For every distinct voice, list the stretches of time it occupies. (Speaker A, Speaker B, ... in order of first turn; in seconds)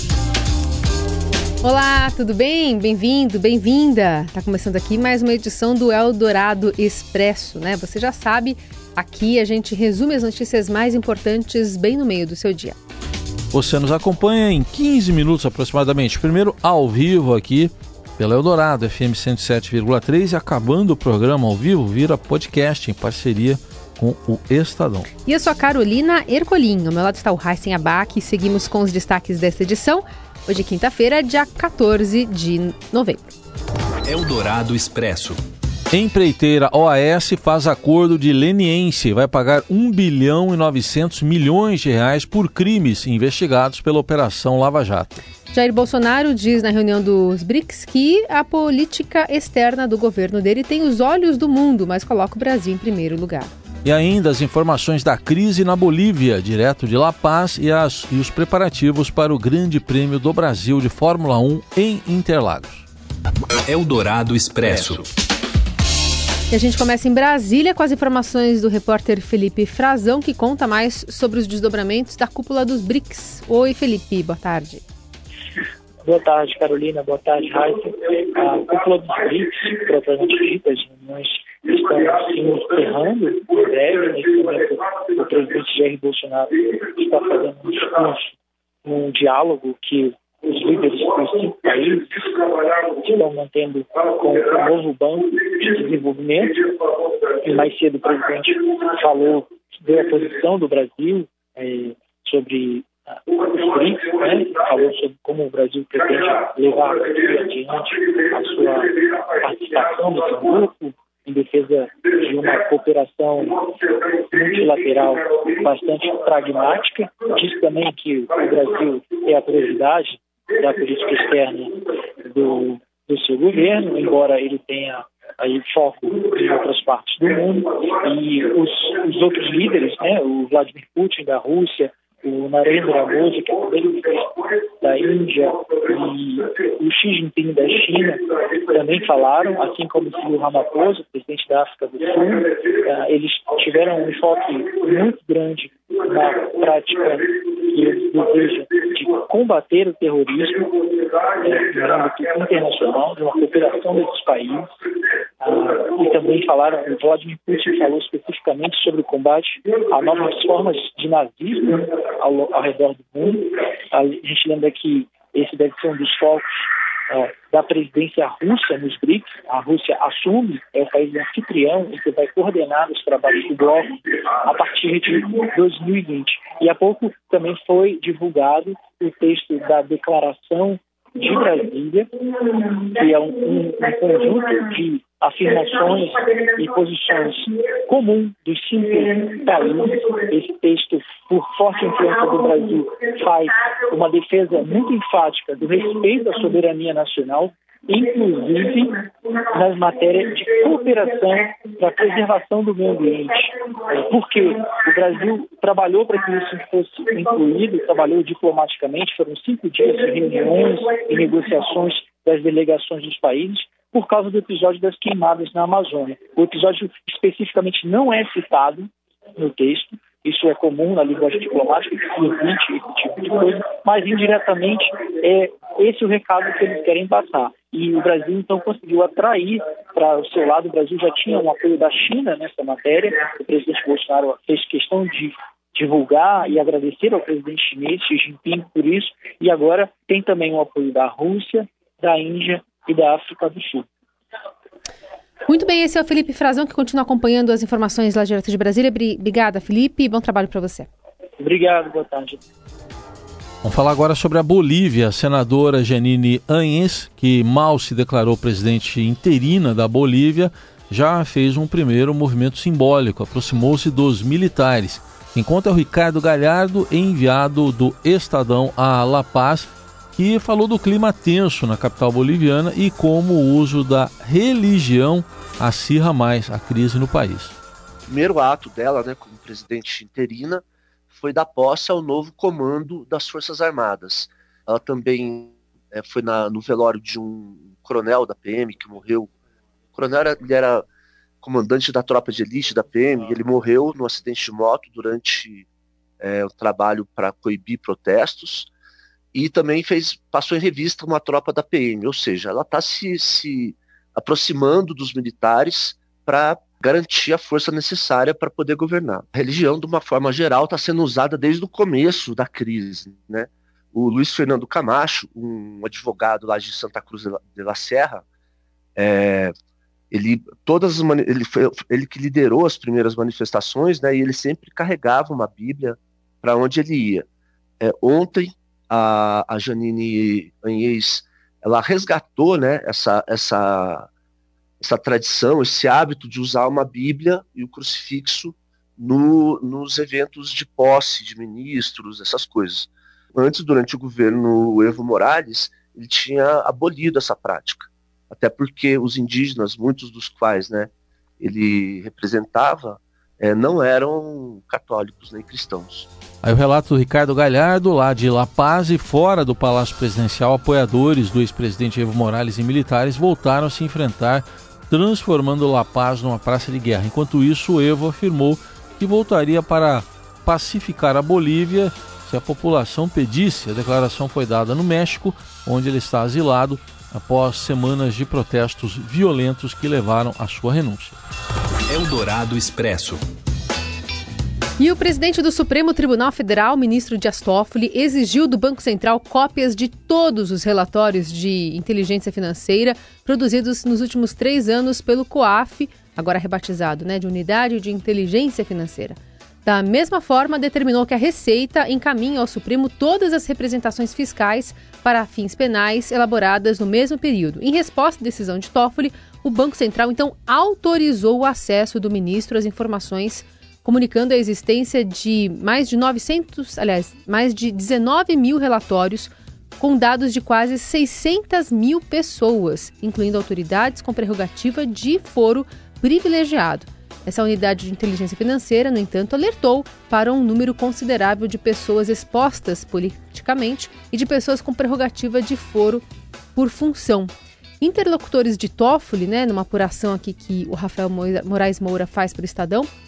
Speaker A: 1.6-12.8, 25.2-33.4, 45.5-53.5, 66.5-74.8, 245.5-250.9, 384.8-442.9
Speaker B: 13.5-25.1, 35.9-45.2, 53.8-62.9, 253.6-277.5, 356.4-381.1
Speaker C: 34.0-35.4, 63.6-65.1, 381.9-383.2
Speaker D: 76.0-154.7, 155.4-243.9, 251.4-252.4
Speaker E: 278.1-289.3, 289.9-290.8, 291.4-295.7, 296.2-298.7, 299.3-318.2, 319.0-319.5, 320.1-327.2, 327.8-334.1, 334.8-356.1